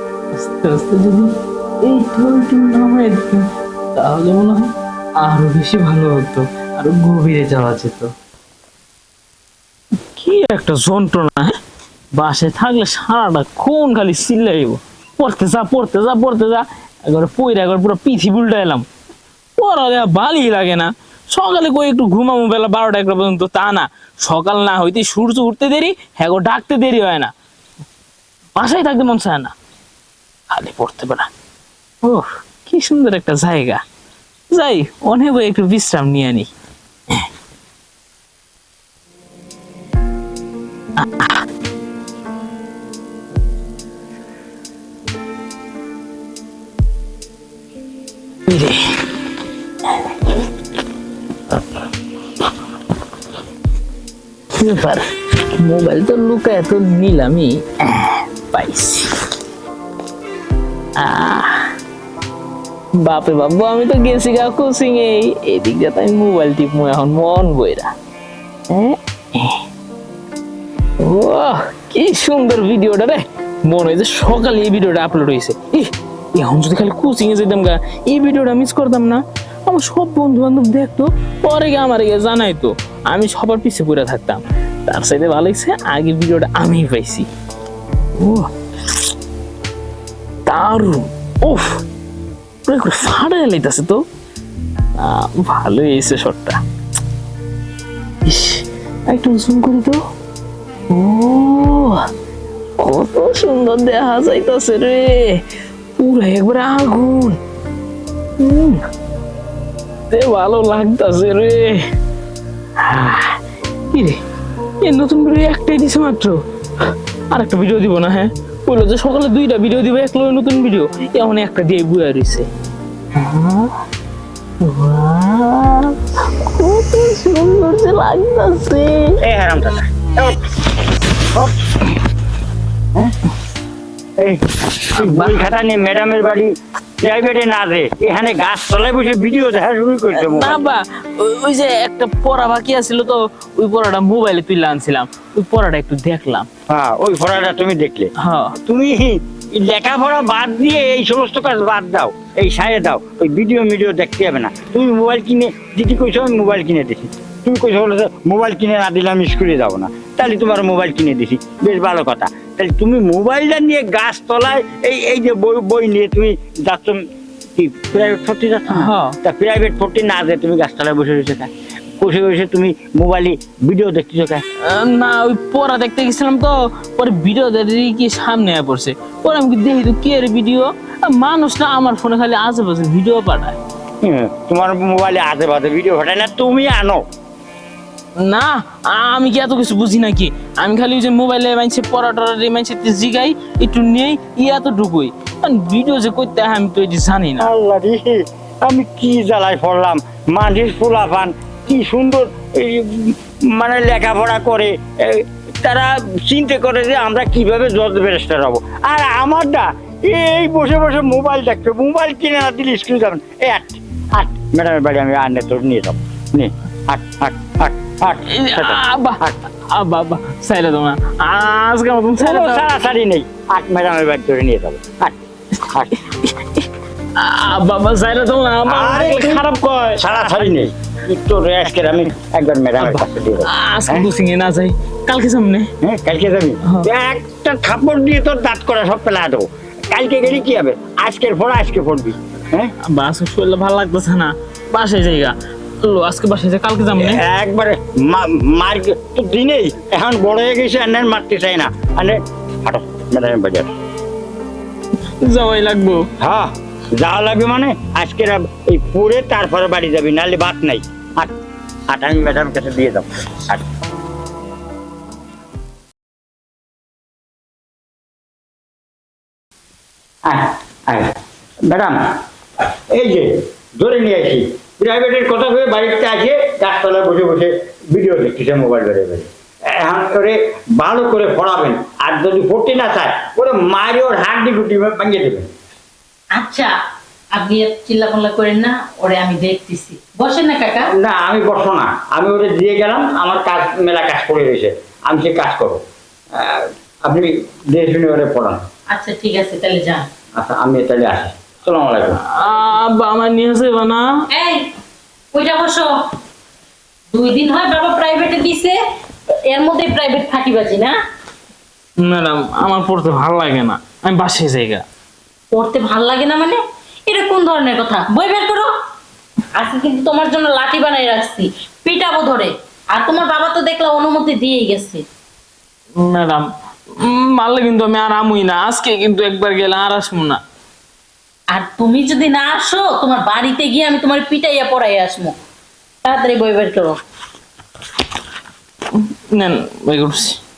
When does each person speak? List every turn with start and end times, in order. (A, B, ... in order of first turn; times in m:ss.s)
0:00.3-0:01.3 A
0:01.8-0:03.4 A
0:04.0-0:04.7 A
0:05.2-0:08.1 A
0:10.2-0:11.6 A
0:12.2-0:18.8 A
0:19.6-0:27.3 A
0:28.6-0:29.6 A
0:30.5-0:31.3 A
0:32.0-0:33.8 A
0:34.5-0:36.5 A
0:41.0-0:41.4 A
0:48.5-0:48.8 A
0:50.0-0:50.3 A
0:54.6-0:55.0 A
0:55.6-0:59.1 A
1:01.0-1:01.6 A
1:03.0-1:07.9 A
1:08.7-1:09.6 A
1:11.0-1:27.3 A
1:28.2-1:28.5 A
1:30.5-1:31.8 A
1:32.7-1:34.0 A
1:35.0-1:36.6 A
1:38.2-1:40.0 A
1:40.9-1:42.0 A
1:42.8-1:45.4 A
1:46.0-1:47.4 A
1:48.4-1:48.8 A
1:50.1-1:51.8 A
1:52.8-1:53.4 A
1:53.9-1:54.2 A
1:54.8-1:56.4 A
1:57.3-2:02.5 A
2:03.2-2:03.7 A
2:04.6-2:09.2 A
2:09.2-2:10.5 B
2:11.3-2:11.7 B
2:14.2-2:20.6 B
2:15.0-2:15.4 A
2:20.1-2:26.5 A
2:26.7-2:28.1 B
2:28.2-2:28.6 A
2:28.7-2:47.0 B
2:47.6-2:54.4 B
2:48.7-2:49.2 A
2:54.6-3:03.6 A
3:04.0-3:07.0 B
3:08.2-3:17.5 A
3:17.4-3:39.4 B
3:38.3-3:42.7 A
3:42.2-3:45.2 B
3:45.6-3:49.4 A
3:48.7-3:54.1 B
3:52.8-3:55.7 A
3:55.8-4:02.7 B
3:56.6-3:56.9 A
4:02.9-4:07.2 A
4:07.0-4:13.7 B
4:15.2-4:16.0 A
4:16.2-4:21.3 B
4:21.9-4:23.6 B
4:30.3-4:31.2 B
4:31.7-4:32.0 B
4:32.9-4:45.5 B
4:46.4-4:46.7 C
4:47.4-4:50.9 C
4:50.9-4:55.8 B
4:56.3-4:58.6 B
4:58.9-5:00.1 C
5:00.4-5:02.2 B
5:02.2-5:04.1 A
5:04.3-5:04.7 C
5:05.3-5:05.9 C
5:07.1-5:08.8 C
5:09.5-5:11.0 C
5:12.0-5:14.8 A
5:15.5-5:18.7 C
5:19.6-5:25.0 C
5:26.0-5:30.4 A
5:31.5-5:35.4 C
5:36.0-5:37.0 C
5:38.9-5:40.4 A